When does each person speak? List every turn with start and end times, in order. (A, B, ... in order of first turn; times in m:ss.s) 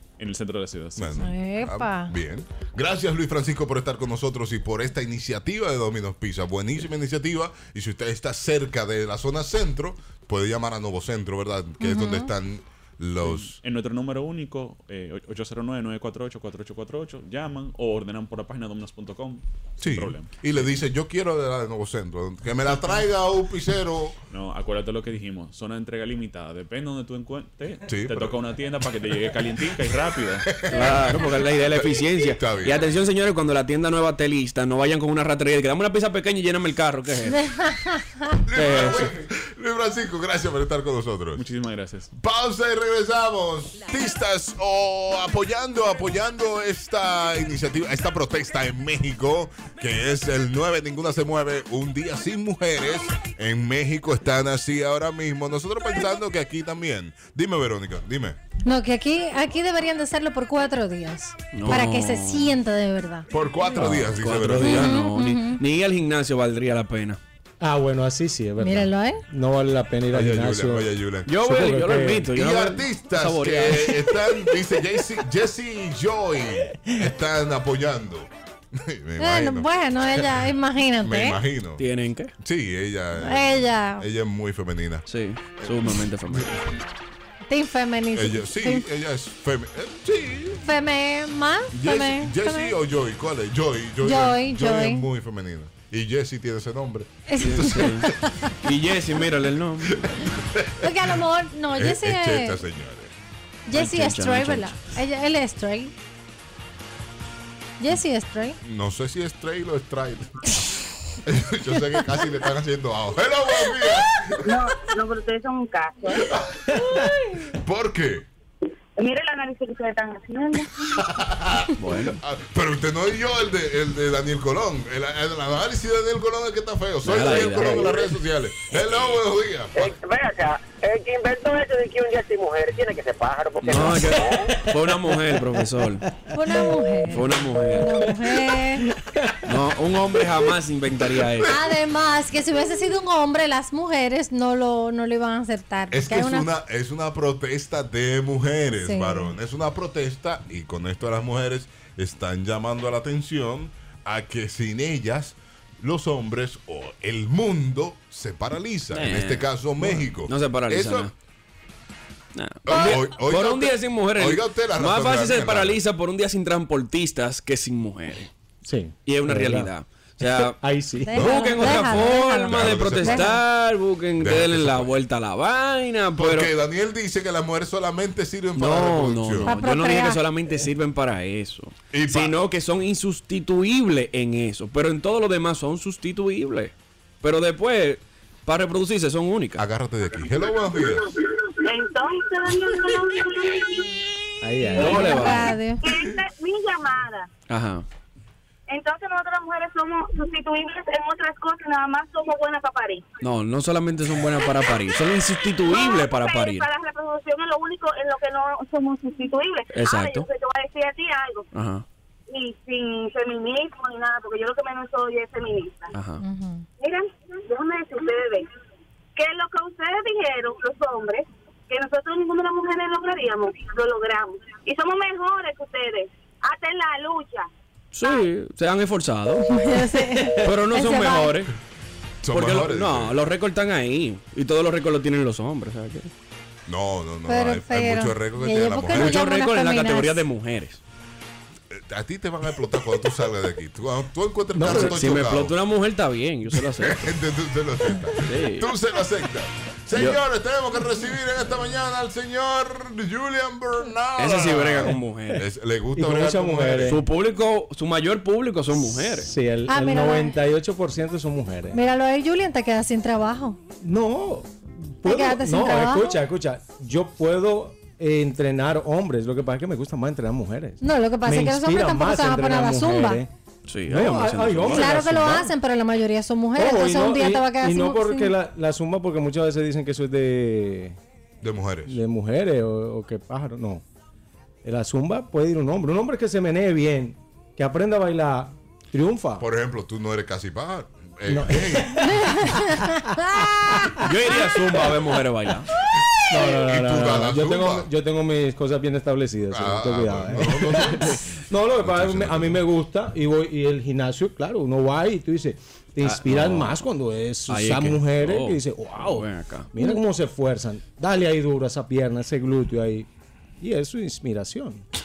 0:00.2-0:01.2 A
0:01.0-0:13.6 B
0:01.2-0:02.1 C
0:11.8-0:12.3 C
0:13.2-0:20.7 A
0:19.8-0:24.2 B
0:24.3-0:30.6 A
0:27.9-0:28.4 B
0:30.5-0:32.8 B
0:30.7-0:37.4 D
0:37.3-0:38.3 C
0:38.4-0:41.4 B
0:38.6-0:39.1 D
0:41.4-0:42.1 A
0:42.1-0:58.4 B
0:58.6-1:03.3 C
1:01.5-1:02.6 D
1:03.3-1:04.9 B
1:03.7-1:07.2 D
1:04.6-1:05.6 C
1:07.6-1:12.3 E
1:08.6-1:09.2 C
1:10.1-1:11.3 B
1:11.3-1:14.2 D
1:12.3-1:20.4 B
1:19.2-1:21.4 C
1:21.0-1:21.8 B
1:21.8-1:22.3 D
1:22.4-1:25.0 B
1:23.2-1:24.0 C
1:25.1-1:26.6 D
1:27.5-1:28.8 C
1:28.1-1:30.6 B
1:30.6-1:32.7 C
1:31.7-1:38.2 B
1:34.0-1:35.1 C
1:37.3-1:38.3 C
1:37.4-1:38.1 D
1:38.6-1:40.1 D
1:39.9-1:41.2 B
1:40.8-1:42.6 C
1:41.7-1:43.1 B
1:43.7-1:45.9 C
1:43.7-1:44.8 D
1:47.8-1:48.6 C
1:48.6-1:50.6 B
1:51.2-1:54.5 B
1:54.4-1:56.3 F
1:56.2-1:56.5 B
1:57.6-1:58.3 B
1:59.0-2:01.0 F
2:01.0-2:09.9 B
2:01.8-2:02.2 D
2:07.0-2:08.0 D
2:09.7-2:14.6 G
2:13.6-2:16.1 D
2:16.3-2:18.9 C
2:17.1-2:18.0 D
2:19.0-2:19.3 E
2:19.4-2:21.5 D
2:21.5-2:26.5 C
2:25.9-2:41.1 B
2:28.8-2:29.3 C
2:38.9-2:41.1 D
2:42.4-2:48.3 D
2:42.7-2:45.8 B
2:48.6-2:49.7 E
2:49.1-2:50.6 D
2:50.4-2:51.5 E
2:51.0-2:53.4 C
2:51.2-2:53.4 B
2:51.2-2:56.5 D
2:54.2-2:54.9 B
2:56.2-2:59.6 B
2:58.6-3:09.6 D
2:59.5-3:00.2 C
3:01.9-3:02.4 B
3:09.6-3:11.1 B
3:11.6-3:14.0 F
3:14.4-3:15.2 E
3:14.7-3:15.8 C
3:14.8-3:15.5 D
3:14.8-3:17.3 F
3:17.5-3:17.8 D
3:18.7-3:23.0 F
3:23.2-3:26.7 D
3:25.6-3:31.4 F
3:29.7-3:30.3 D
3:31.5-3:31.8 D
3:32.3-3:35.9 F
3:35.9-3:36.2 D
3:36.2-3:36.6 C
3:36.8-3:38.5 F
3:39.2-3:47.5 F
3:47.9-3:51.5 D
3:49.5-3:51.4 C
3:52.2-3:53.2 B
3:52.3-3:56.1 D
3:56.7-3:59.2 B
3:57.3-4:00.2 C
3:58.9-4:00.8 D
4:01.7-4:05.5 B
4:04.5-4:05.0 E
4:04.6-4:07.1 D
4:06.8-4:17.0 B
4:08.2-4:08.7 D
4:14.2-4:15.4 D
4:16.0-4:17.0 E
4:16.9-4:19.3 D
4:18.8-4:21.8 E
4:19.7-4:20.4 C
4:21.7-4:23.6 C
4:23.8-4:33.3 E
4:25.0-4:26.2 C
4:30.8-4:33.2 C
4:33.7-4:35.0 D
4:33.9-4:35.5 E
4:34.7-4:38.3 C
4:36.6-4:41.0 E
4:41.4-4:42.0 B
4:41.9-4:43.8 E
4:44.6-4:49.4 E
4:49.4-4:52.2 B
4:51.3-4:55.0 E
4:54.0-4:55.7 D
4:56.3-5:13.1 E
4:56.3-4:57.9 B
4:59.5-5:01.1 B
5:01.8-5:02.6 B
5:06.0-5:06.8 D
5:07.5-5:09.7 D
5:13.6-5:14.8 E